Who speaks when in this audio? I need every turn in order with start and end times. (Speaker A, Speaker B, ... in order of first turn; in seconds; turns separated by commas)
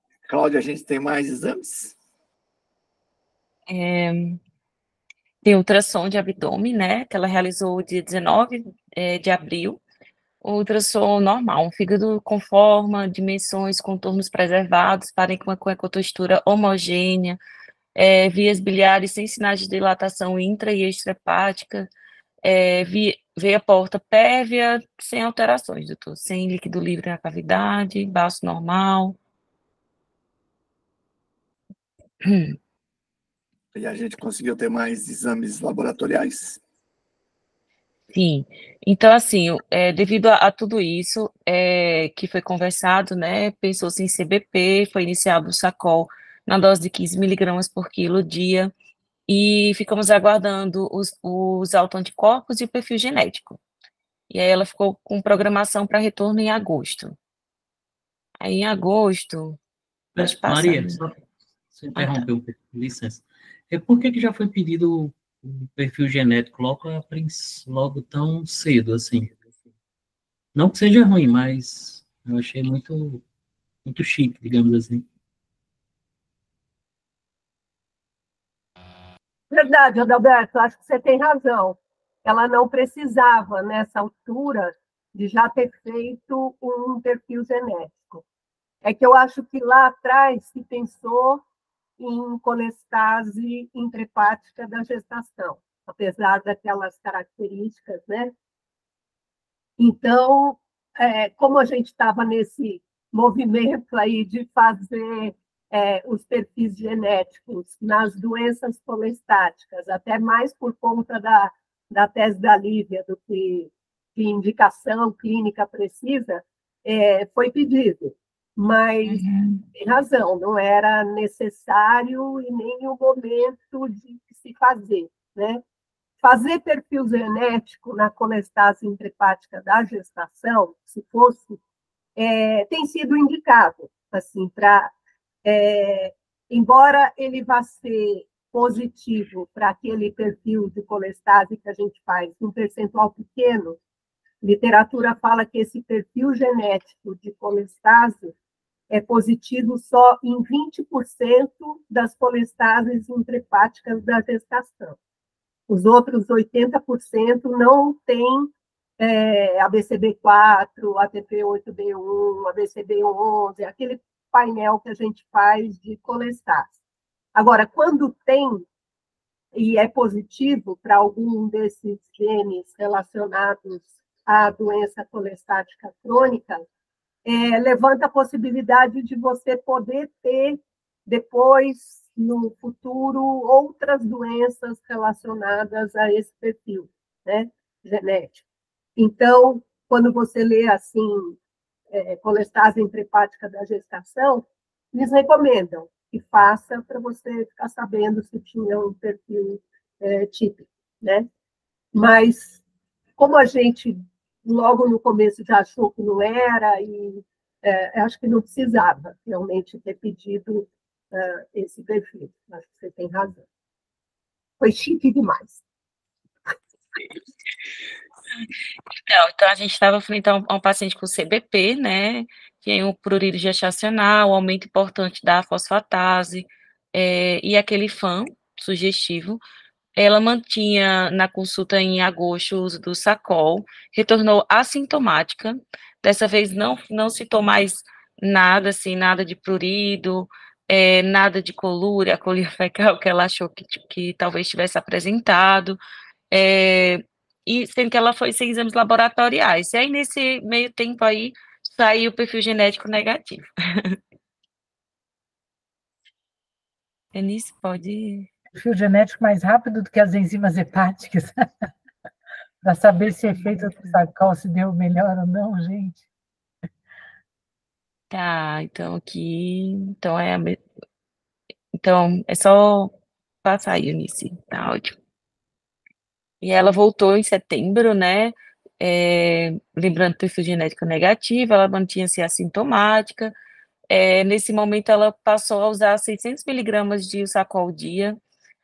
Speaker A: 0.2-1.9, Speaker B: 3.7-4.4, Speaker B: 5.4-9.8, Speaker B: 10.4-17.4, Speaker B: 17.9-21.9, Speaker B: 22.4-29.2, Speaker B: 32.2-32.6, Speaker A: 33.7-36.6, Speaker B: 38.1-48.7, Speaker B: 49.3-53.6, Speaker B: 54.3-57.1, Speaker B: 58.4-59.6, Speaker C: 60.1-61.1, Speaker B: 60.2-61.0, Speaker C: 61.7-69.4, Speaker B: 62.0-62.2, Speaker C: 70.5-73.2, Speaker C: 73.8-75.0, Speaker D: 79.5-88.2, Speaker D: 88.8-91.4, Speaker D: 92.0-98.3, Speaker D: 99.8-125.6, Speaker B: 119.1-119.6, Speaker D: 126.2-131.6, Speaker D: 132.2-134.9, Speaker D: 135.4-143.8, Speaker D: 144.4-148.3, Speaker D: 148.9-155.0, Speaker D: 155.7-166.7, Speaker D: 167.3-168.7, Speaker D: 169.5-176.6, Speaker D: 177.2-188.4, Speaker D: 189.0-191.3, Speaker D: 191.9-201.3, Speaker D: 201.9-202.6, Speaker D: 203.2-213.4, Speaker D: 214.6-215.6, Speaker B: 219.1-229.4, Speaker B: 229.9-245.8, Speaker B: 246.3-254.0, Speaker B: 257.1-258.3, Speaker E: 258.5-261.5, Speaker E: 262.6-266.0, Speaker B: 268.1-270.6, Speaker B: 271.7-272.9, Speaker B: 273.4-274.9, Speaker B: 276.4-283.3, Speaker B: 283.9-288.2